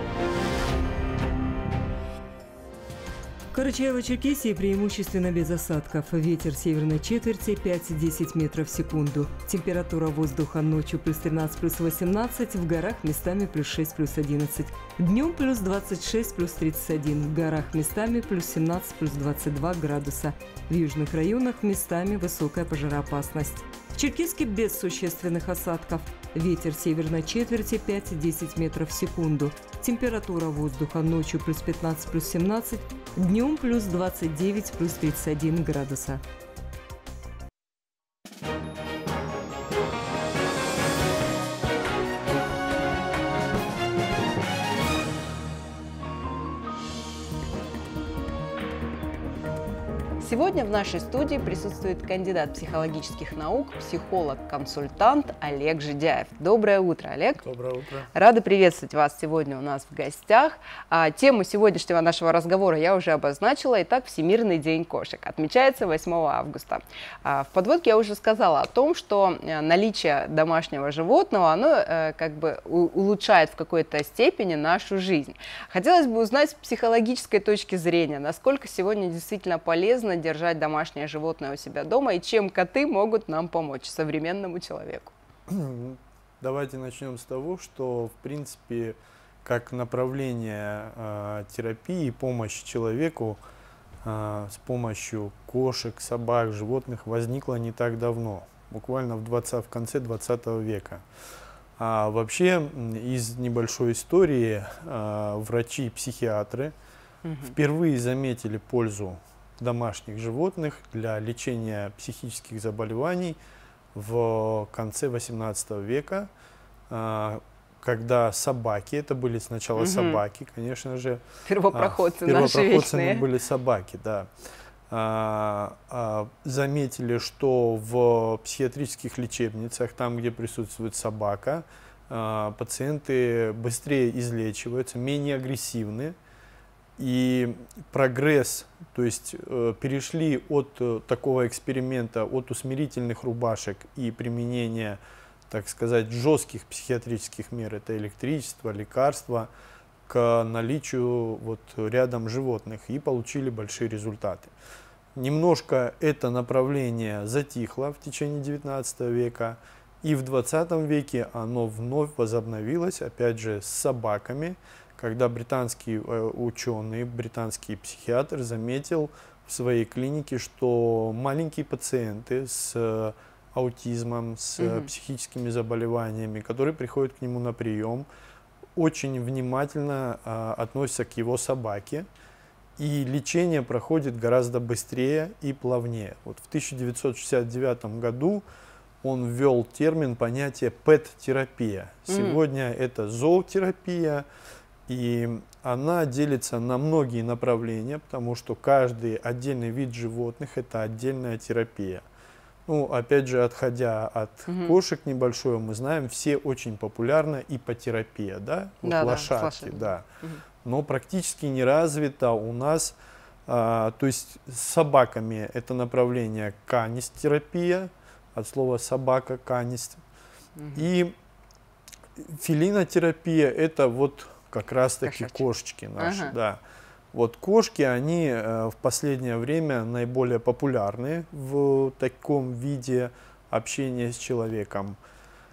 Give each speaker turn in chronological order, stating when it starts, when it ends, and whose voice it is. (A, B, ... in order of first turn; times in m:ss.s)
0:03.5-0:36.2 A
0:50.2-0:57.4 B
0:57.4-0:58.1 C
0:58.1-1:25.1 B
1:25.5-1:33.4 C
1:34.0-1:41.1 C
1:41.8-1:46.7 C
1:47.2-1:47.6 B
1:47.4-1:53.4 C
1:53.9-1:56.3 C
1:56.9-2:04.3 C
1:59.8-2:00.2 B
2:01.5-2:03.2 B
2:04.9-2:16.2 C
2:17.0-2:29.5 C
2:30.1-2:34.5 C
2:35.2-2:58.1 C
2:54.6-2:54.9 B
2:58.8-3:02.1 C
3:02.8-3:08.4 C
3:09.0-3:14.3 C
3:12.1-3:12.4 B
3:14.9-3:22.0 C
3:22.7-3:30.1 C
3:24.5-3:24.8 B
3:28.8-3:30.4 B
3:30.6-3:40.0 C
3:40.6-3:40.8 B
3:40.8-3:41.2 C
3:42.2-3:46.6 C
3:45.0-3:45.4 B
3:46.0-3:46.3 B
3:47.1-3:55.0 C